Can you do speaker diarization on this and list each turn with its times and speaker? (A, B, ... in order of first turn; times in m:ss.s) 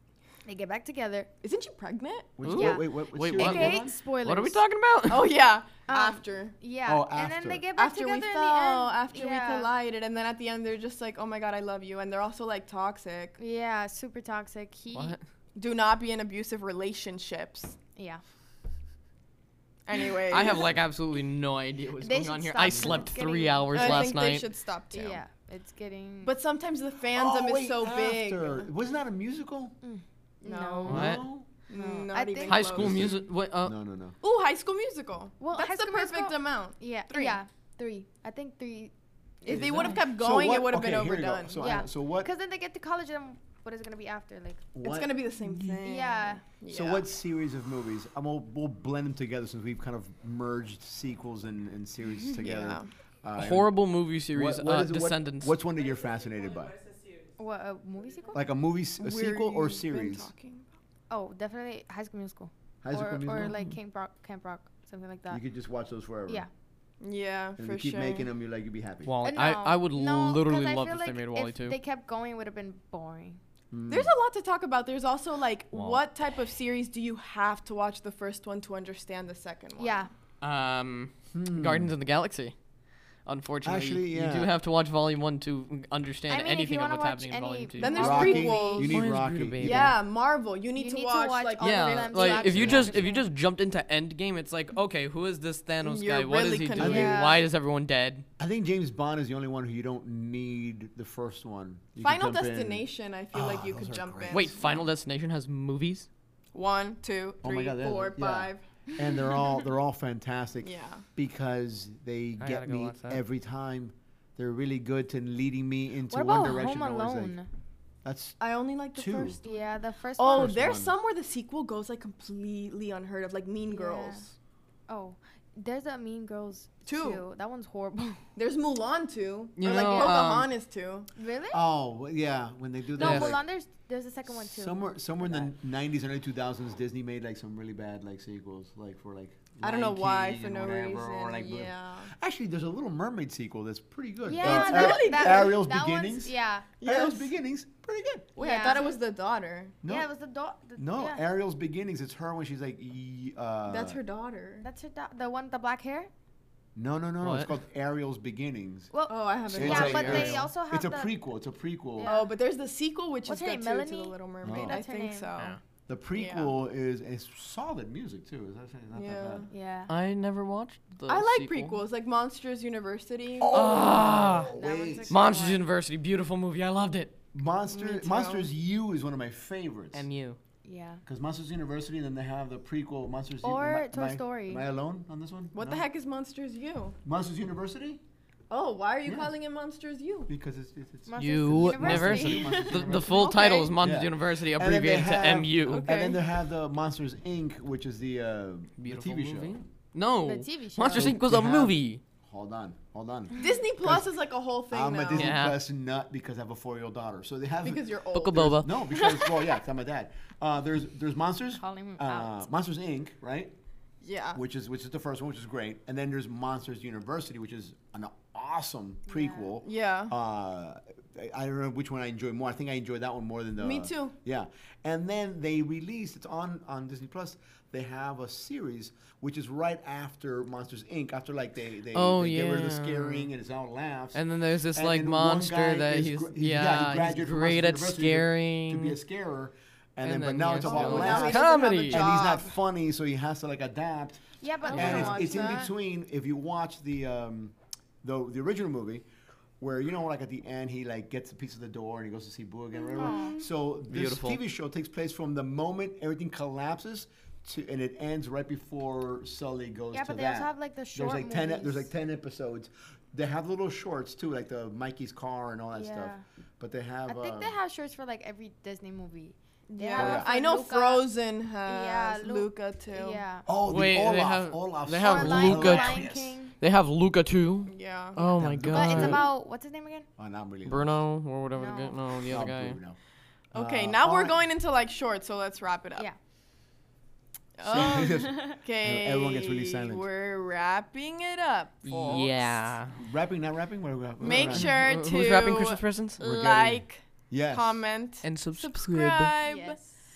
0:00.4-0:01.3 A
0:01.4-0:02.4 B
0:02.4-0:04.0 C
0:02.4-0:05.4 D
0:02.4-0:04.6 A
0:05.1-0:06.6 B
0:05.9-0:09.7 A
0:06.8-0:07.6 C
0:07.8-0:13.4 B
0:13.4-0:15.2 A
0:14.9-0:15.2 D
0:15.6-0:17.8 B
0:18.0-0:18.2 A
0:19.9-0:20.7 B
0:20.3-0:24.5 D
0:22.0-0:24.1 A
0:22.7-0:23.1 C
0:23.7-0:25.2 B
0:24.9-0:26.3 A
0:26.2-0:28.7 B
0:27.1-0:29.8 C
0:29.8-0:31.2 A
0:30.4-0:31.1 B
0:30.9-0:31.2 D
0:30.9-0:31.5 C
0:31.7-0:33.2 B
0:31.7-0:32.7 A
0:32.4-0:33.8 D
0:32.7-0:34.2 C
0:34.2-0:37.4 B
0:35.4-0:39.9 A
0:39.5-0:41.7 B
0:39.5-0:42.3 C
0:39.7-0:40.0 D
0:41.6-0:44.6 A
0:44.8-0:45.1 C
0:44.8-0:47.1 B
0:45.8-0:46.4 A
0:46.7-0:53.7 C
0:52.4-0:52.9 B
0:53.4-0:55.6 D
0:54.3-0:56.8 C
0:57.4-0:58.5 A
0:58.3-1:00.3 C
0:59.0-1:00.7 B
1:01.1-1:05.4 A
1:02.8-1:03.5 C
1:05.3-1:06.4 C
1:07.0-1:08.3 B
1:07.6-1:09.1 C
1:09.0-1:11.8 D
1:09.2-1:13.4 A
1:13.7-1:14.1 C
1:13.9-1:20.1 B
1:15.7-1:16.0 D
1:19.8-1:20.1 A
1:20.4-1:22.6 D
1:21.3-1:21.9 C
1:23.2-1:30.0 D
1:23.6-1:24.5 C
1:26.3-1:28.9 A
1:27.8-1:29.0 B
1:28.0-1:30.0 C
1:29.6-1:32.5 B
1:30.8-1:33.3 A
1:31.6-1:38.3 D
1:32.5-1:33.0 C
1:35.8-1:37.4 B
1:36.8-1:37.2 C
1:36.8-1:37.4 A
1:38.4-1:44.6 C
1:42.0-1:44.8 B
1:44.3-1:46.1 D
1:46.5-1:48.6 B
1:47.4-1:57.4 C
1:50.6-1:51.0 B
1:52.4-1:53.2 D
1:56.1-1:57.5 A
1:58.0-1:58.4 C
1:58.4-1:59.6 B
1:58.9-1:59.4 C
1:59.4-2:00.6 A
2:00.2-2:04.3 B
2:00.3-2:01.0 C
2:03.7-2:04.2 A
2:04.9-2:08.2 A
2:06.8-2:07.2 B
2:08.4-2:11.1 B
2:09.6-2:10.5 D
2:11.2-2:11.6 A
2:11.5-2:13.4 C
2:13.0-2:15.5 A
2:13.0-2:13.4 D
2:14.3-2:28.3 C
2:19.6-2:22.1 B
2:24.2-2:26.7 A
2:24.4-2:25.6 B
2:26.8-2:27.3 B
2:28.4-2:29.8 B
2:28.4-2:29.0 A
2:29.8-2:30.1 C
2:29.8-2:31.2 A
2:30.8-2:34.0 C
2:33.7-2:34.6 B
2:34.6-2:36.1 A
2:36.8-2:38.9 C
2:37.2-2:37.5 D
2:38.9-2:41.2 A
2:39.1-2:40.5 B
2:39.5-2:42.1 C
2:39.6-2:40.3 D
2:42.0-2:42.3 A
2:42.0-2:45.6 B
2:43.3-2:45.3 A
2:44.4-2:44.8 C
2:45.9-2:49.5 C
2:46.2-2:46.6 B
2:48.9-2:49.5 B
2:49.5-2:49.9 A
2:49.9-2:51.8 D
2:51.1-2:53.7 B
2:53.4-2:55.2 C
2:53.5-2:54.5 D
2:54.4-2:55.6 A
2:55.1-2:57.2 D
2:57.3-3:00.1 C
2:57.7-2:58.5 B
2:59.9-3:00.4 D
3:00.6-3:01.0 A
3:01.0-3:05.8 C
3:03.4-3:04.6 A
3:05.5-3:07.0 B
3:07.0-3:08.0 C
3:08.5-3:10.3 B
3:09.0-3:09.4 C
3:10.3-3:13.2 C
3:11.1-3:13.6 A
3:11.2-3:15.9 D
3:13.2-3:13.7 B
3:13.8-3:19.6 C
3:15.7-3:16.2 B
3:18.8-3:22.0 D
3:20.2-3:21.2 A
3:20.9-3:21.8 C
3:22.3-3:24.1 C
3:23.4-3:25.4 B
3:24.7-3:33.5 C
3:25.1-3:25.6 D
3:27.6-3:28.5 B
3:28.1-3:28.8 D
3:31.6-3:32.5 A
3:34.0-3:34.4 B
3:34.3-4:09.1 C
3:39.1-3:39.5 A
3:39.6-3:40.1 B
3:43.6-3:44.2 B
3:51.9-3:53.3 D
3:54.1-3:59.0 D
4:00.0-4:02.2 D
4:00.6-4:02.5 B
4:04.4-4:05.7 A
4:04.6-4:05.7 B
4:04.7-4:05.2 D
4:09.6-4:27.6 C
4:12.8-4:13.5 B
4:13.0-4:13.4 A
4:13.9-4:14.4 D
4:19.9-4:21.9 A
4:25.8-4:26.2 A
4:27.1-4:31.1 A
4:29.7-4:33.2 B
4:30.0-4:30.3 C
4:31.6-4:33.5 A
4:33.5-4:36.4 C
4:33.6-4:39.2 D
4:35.0-4:36.6 A
4:37.7-4:38.2 B
4:38.2-4:39.3 C
4:38.7-4:40.1 A
4:40.2-4:41.0 C
4:40.7-4:42.8 D
4:41.5-4:42.0 A
4:42.3-4:43.0 C
4:43.5-4:44.4 C
4:43.5-4:46.1 B
4:47.6-4:52.5 B
4:47.6-4:50.1 C
4:47.7-4:48.6 A
4:51.8-4:53.0 D
4:53.0-4:54.8 C
4:54.2-4:59.8 B
4:54.3-4:56.2 D
4:56.2-4:57.8 C
4:58.2-4:59.3 D
4:59.4-5:00.0 A